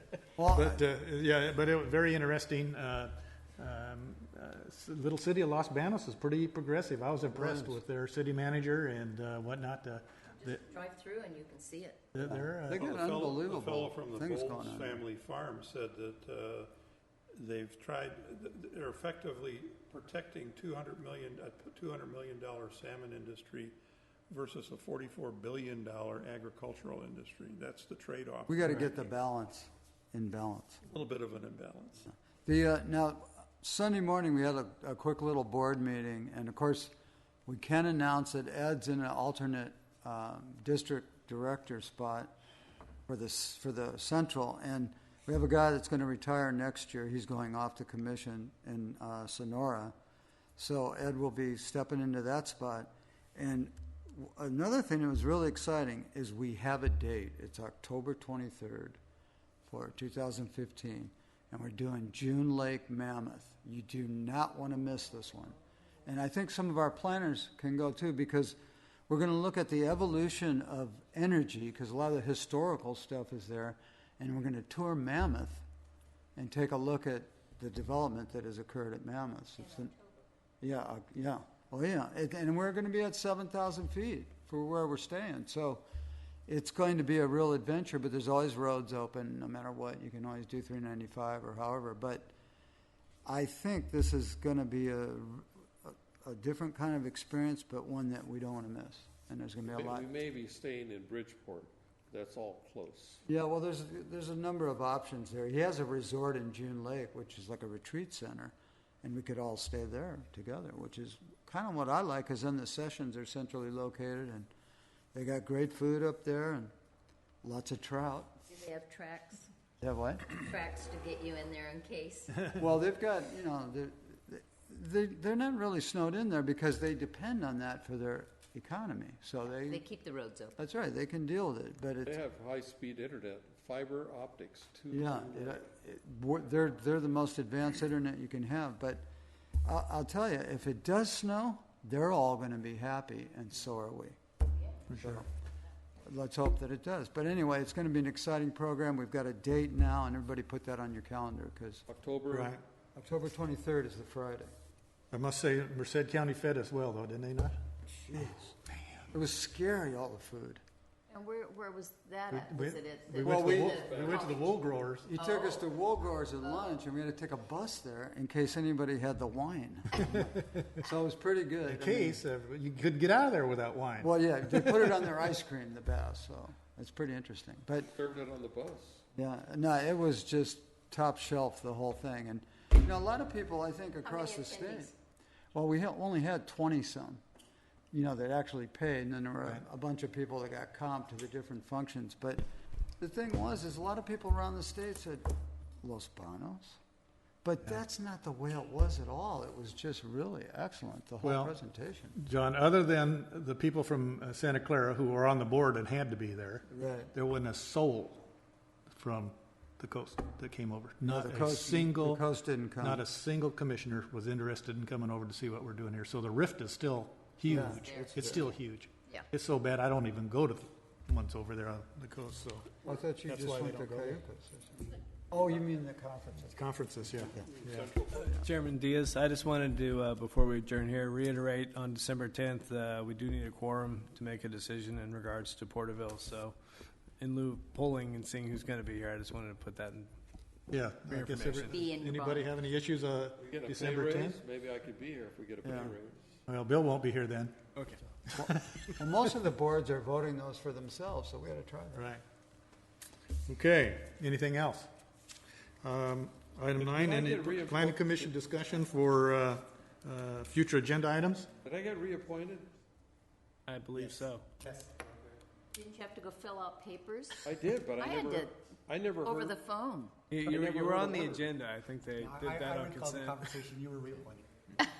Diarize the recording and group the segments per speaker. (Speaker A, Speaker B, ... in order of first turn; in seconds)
Speaker A: 0.4-0.8, 7.3-7.8, 12.2-15.0, 28.5-30.8, 32.1-36.9, 37.5-42.4, 43.1-50.0, 50.6-59.0, 59.7-75.6, 76.4-79.9, 80.6-85.8, 86.5-92.3, 93.2-100.1, 103.3-114.5, 115.1-116.7, 117.4-118.3, 119.8-120.4, 122.5-129.8, 130.6-132.2, 134.9-139.1, 139.6-144.2, 144.9-145.3, 146.0-151.8, 152.9-154.5, 158.0-158.5, 159.1-160.6, 163.2-164.0, 165.1-172.2, 174.0-177.9, 179.2-184.9, 185.5-187.2, 187.9-192.4, 193.0-195.3, 195.8-196.8, 197.4-202.2, 206.7-207.1, 211.1-213.0, 217.5-218.4, 222.8-226.6, 227.2-227.5, 245.6-246.0, 248.3-252.1
Speaker B: 0.5-10.6, 12.1-12.8, 144.9-145.2, 152.3-152.6, 155.1-157.6, 158.7-159.1, 162.3-165.1, 171.7-174.6, 201.2-201.5, 202.2-208.3, 208.9-212.2, 212.8-224.2, 226.5-227.9, 240.7-244.4, 246.5-247.6, 248.3-248.9, 251.9-252.2, 253.5-254.9, 255.8-261.5
Speaker C: 10.5-12.0, 79.8-80.2, 118.5-119.5, 120.3-122.5, 129.6-130.6, 161.1-164.5, 165.2-165.7, 166.4-166.8, 184.0-184.9, 217.7-218.4, 241.7-242.5, 265.8-267.4, 268.0-268.5, 269.2-270.2
Speaker D: 12.7-16.7, 17.3-23.8, 24.3-28.9, 30.9-32.1
Speaker E: 99.7-103.2, 132.1-135.6, 151.9-152.6, 163.8-164.3, 177.9-179.0, 227.6-228.4, 243.4-246.2, 256.8-258.3, 261.6-262.7, 267.4-269.6, 270.4-271.4
Speaker F: 228.2-236.5, 237.2-240.1, 241.1-241.7, 263.7-264.5, 270.3-273.5
Speaker G: 264.0-264.2, 272.2-274.4